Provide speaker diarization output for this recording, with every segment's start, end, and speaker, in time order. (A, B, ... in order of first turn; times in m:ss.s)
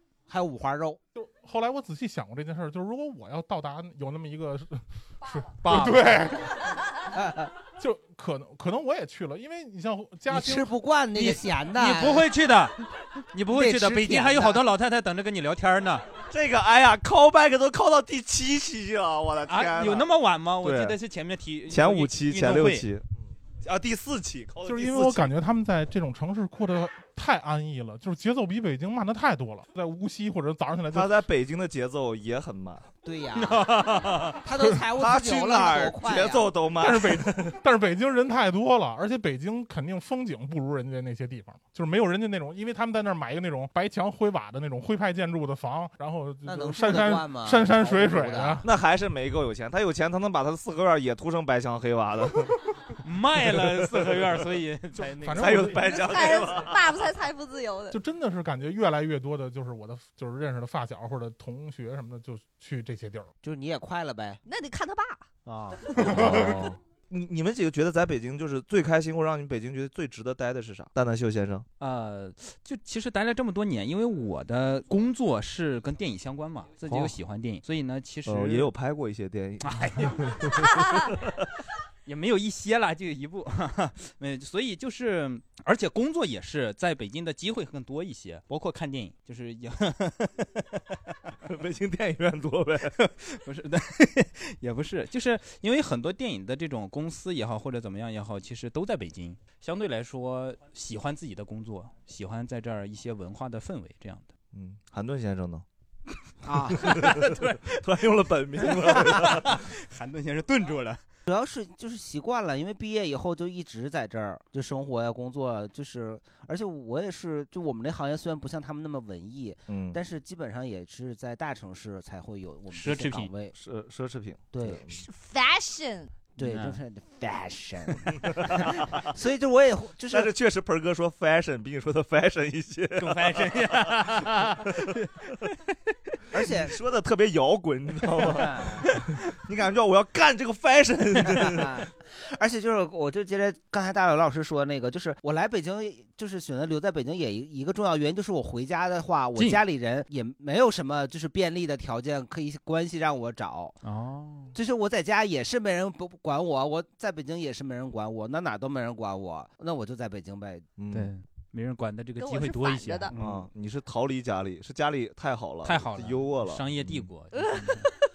0:00.3-0:01.0 A
0:01.2-0:06.6 B
0:05.6-0:06.1 C
0:07.1-0:07.5 A
0:07.8-0:10.7 B
0:10.3-0:12.3 A
0:11.1-0:12.8 C
0:13.3-0:16.0 C
0:13.5-0:14.6 A
0:16.3-0:21.0 D
0:19.5-0:22.9 C
0:21.7-0:25.3 D
0:24.6-0:31.1 B
0:30.9-0:32.9 D
0:33.0-0:33.6 A
0:33.4-0:34.4 C
0:34.4-0:36.5 A
0:34.9-0:37.6 D
0:36.8-0:48.6 B
0:46.4-0:48.6 A
0:48.6-0:52.6 D
0:53.0-0:55.8 C
0:55.1-0:55.9 B
0:55.3-0:56.8 D
0:55.8-0:58.0 E
0:57.9-1:03.3 B
1:03.4-1:04.4 A
1:04.4-1:05.3 E
1:05.4-1:06.5 A
1:06.0-1:11.7 D
1:11.8-1:18.7 C
1:16.9-1:17.1 D
1:18.3-1:20.6 D
1:19.6-1:20.6 C
1:22.0-1:31.1 C
1:31.5-1:33.0 D
1:33.0-1:44.3 C
1:44.5-1:45.6 D
1:46.4-1:47.0 A
1:46.8-1:49.6 D
1:46.9-1:47.8 C
1:48.6-1:51.0 C
1:51.3-2:03.5 A
1:59.7-2:00.0 D
2:02.7-2:03.3 C
2:03.5-2:05.0 D
2:04.5-2:04.8 A
2:05.0-2:06.1 E
2:06.4-2:10.3 A
2:06.4-2:06.8 C
2:08.2-2:08.8 D
2:10.1-2:13.8 D
2:13.0-2:15.7 C
2:16.3-2:16.7 A
2:16.4-2:21.8 D
2:18.4-2:18.8 A
2:21.4-2:33.8 A
2:29.4-2:29.6 C
2:33.8-2:34.6 C
2:34.5-2:40.6 A
2:40.8-2:41.1 D
2:40.9-2:43.4 C
2:42.2-2:43.1 E
2:43.1-2:47.0 D
2:45.6-2:47.9 C